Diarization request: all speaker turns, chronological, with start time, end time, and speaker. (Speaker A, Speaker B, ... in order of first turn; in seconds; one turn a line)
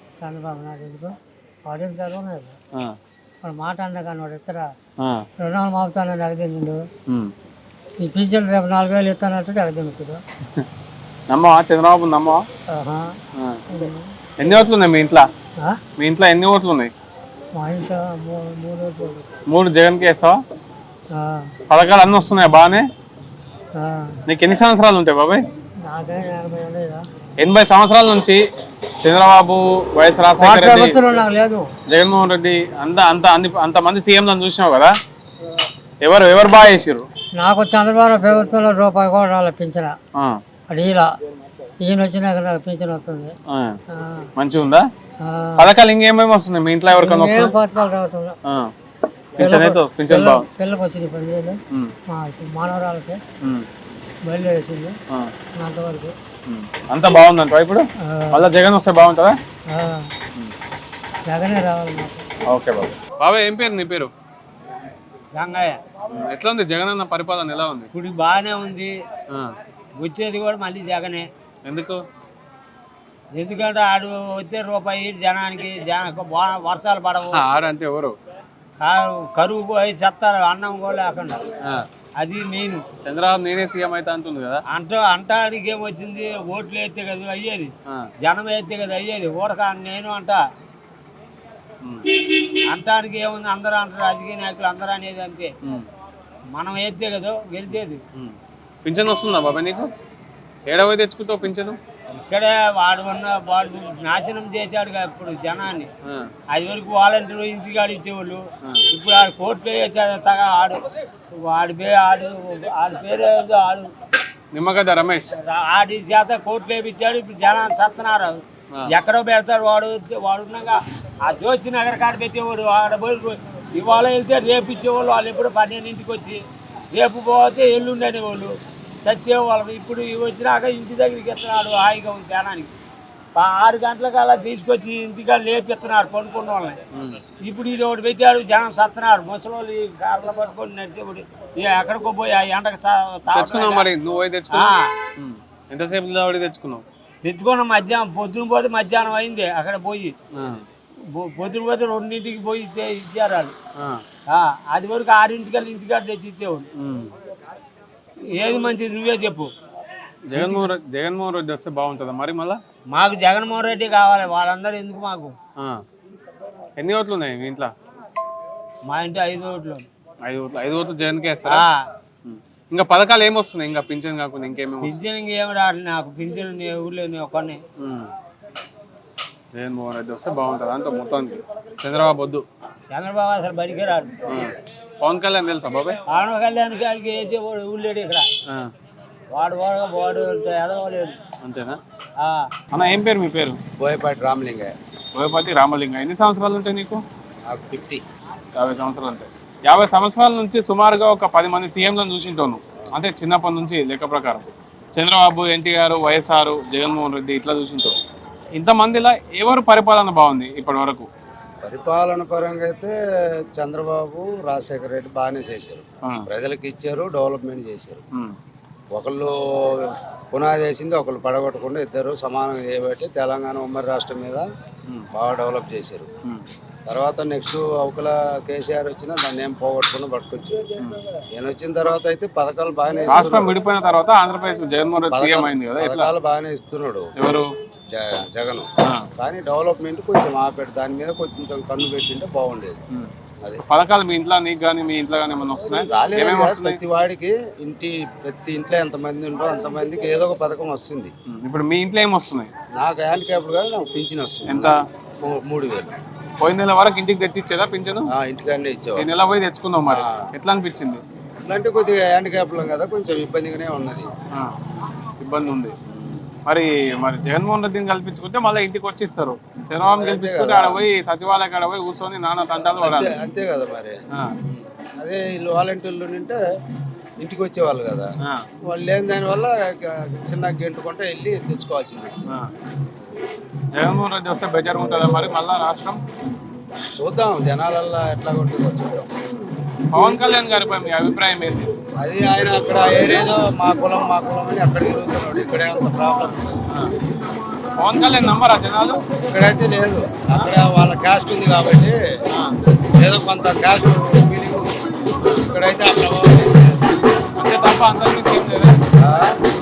Speaker A: 0.2-2.6
Speaker A: 3.4-4.7
Speaker B: 5.0-5.3
Speaker A: 5.4-6.8
Speaker B: 7.1-7.3
Speaker A: 8.0-10.2
Speaker B: 11.3-12.4
Speaker A: 12.7-13.2
Speaker B: 13.4-13.6
Speaker A: 13.7-14.2
Speaker B: 14.4-15.3
Speaker B: 16.0-16.9
Speaker A: 17.5-19.3
Speaker B: 19.5-20.4
Speaker A: 21.1-21.5
Speaker B: 21.7-22.9
Speaker A: 23.8-24.2
Speaker B: 24.3-25.4
Speaker A: 25.8-27.1
Speaker B: 27.4-28.4
Speaker B: 29.0-31.0
Speaker A: 30.4-31.7
Speaker B: 31.9-34.9
Speaker B: 36.0-37.1
Speaker A: 37.4-40.0
Speaker A: 40.7-41.2
Speaker A: 41.8-43.4
Speaker B: 43.5-43.8
Speaker A: 43.9-44.3
Speaker B: 44.4-44.9
Speaker A: 45.2-45.7
Speaker B: 45.6-47.5
Speaker A: 46.9-48.4
Speaker B: 48.5-48.7
Speaker B: 49.4-50.5
Speaker A: 49.4-53.2
Speaker A: 54.2-55.0
Speaker A: 55.6-56.1
Speaker B: 56.5-59.4
Speaker A: 58.0-58.4
Speaker A: 59.7-60.1
Speaker A: 61.3-62.3
Speaker B: 62.5-64.1
Speaker C: 65.3-65.8
Speaker B: 66.1-67.9
Speaker C: 67.9-69.0
Speaker C: 70.0-71.3
Speaker B: 71.7-72.0
Speaker C: 73.3-77.4
Speaker B: 77.3-78.2
Speaker C: 78.8-81.5
Speaker C: 82.2-82.8
Speaker B: 83.0-84.6
Speaker C: 84.7-90.4
Speaker C: 92.5-95.5
Speaker C: 96.5-98.0
Speaker B: 98.1-99.9
Speaker B: 100.7-101.8
Speaker C: 102.1-105.9
Speaker B: 106.0-106.3
Speaker C: 106.5-113.9
Speaker B: 114.5-115.3
Speaker C: 115.4-132.7
Speaker C: 133.3-136.8
Speaker B: 136.9-137.2
Speaker C: 137.4-143.9
Speaker B: 143.3-146.8
Speaker C: 144.5-144.9
Speaker C: 147.2-150.1
Speaker B: 150.3-150.7
Speaker C: 151.1-153.5
Speaker B: 153.8-154.0
Speaker C: 154.3-156.7
Speaker B: 156.8-157.1
Speaker C: 158.3-159.5
Speaker B: 160.3-162.6
Speaker C: 160.3-160.7
Speaker C: 162.9-165.4
Speaker B: 165.6-165.8
Speaker B: 166.8-167.7
Speaker C: 168.9-169.9
Speaker B: 170.2-171.6
Speaker C: 171.5-171.8
Speaker B: 172.2-175.0
Speaker C: 174.8-177.6
Speaker B: 177.8-178.1
Speaker B: 179.5-182.4
Speaker C: 182.9-184.1
Speaker B: 184.3-186.0
Speaker C: 186.1-188.3
Speaker C: 189.3-191.2
Speaker B: 191.4-191.8
Speaker C: 192.2-192.5
Speaker B: 192.7-193.6
Speaker D: 193.8-194.7
Speaker B: 195.2-197.0
Speaker D: 197.4-198.0
Speaker B: 198.6-208.0
Speaker B: 208.6-211.1
Speaker D: 211.6-218.0
Speaker D: 218.9-224.4
Speaker D: 225.1-226.1
Speaker D: 226.9-230.7
Speaker D: 231.3-233.6
Speaker B: 233.1-236.1
Speaker D: 235.0-237.1
Speaker B: 237.2-237.5
Speaker D: 237.9-242.8
Speaker B: 238.8-239.1
Speaker B: 243.7-246.8
Speaker D: 245.7-251.1
Speaker B: 251.3-252.5
Speaker D: 252.8-255.9
Speaker B: 254.5-254.8
Speaker B: 256.4-258.1
Speaker D: 258.1-259.1
Speaker B: 259.0-261.0
Speaker D: 259.8-260.3
Speaker D: 261.4-264.1
Speaker B: 265.2-265.8
Speaker D: 265.9-266.4
Speaker B: 266.4-273.1
Speaker D: 269.9-270.8
Speaker D: 272.6-276.4
Speaker D: 277.2-278.1
Speaker B: 278.2-278.5
Speaker D: 278.6-282.3
Speaker B: 283.8-286.0
Speaker D: 286.9-289.1
Speaker B: 289.9-291.7
Speaker D: 292.0-296.5
Speaker B: 296.7-296.9
Speaker B: 297.8-299.1
Speaker D: 299.2-302.0
Speaker D: 303.0-306.8
Speaker B: 307.4-308.8
Speaker D: 309.0-309.4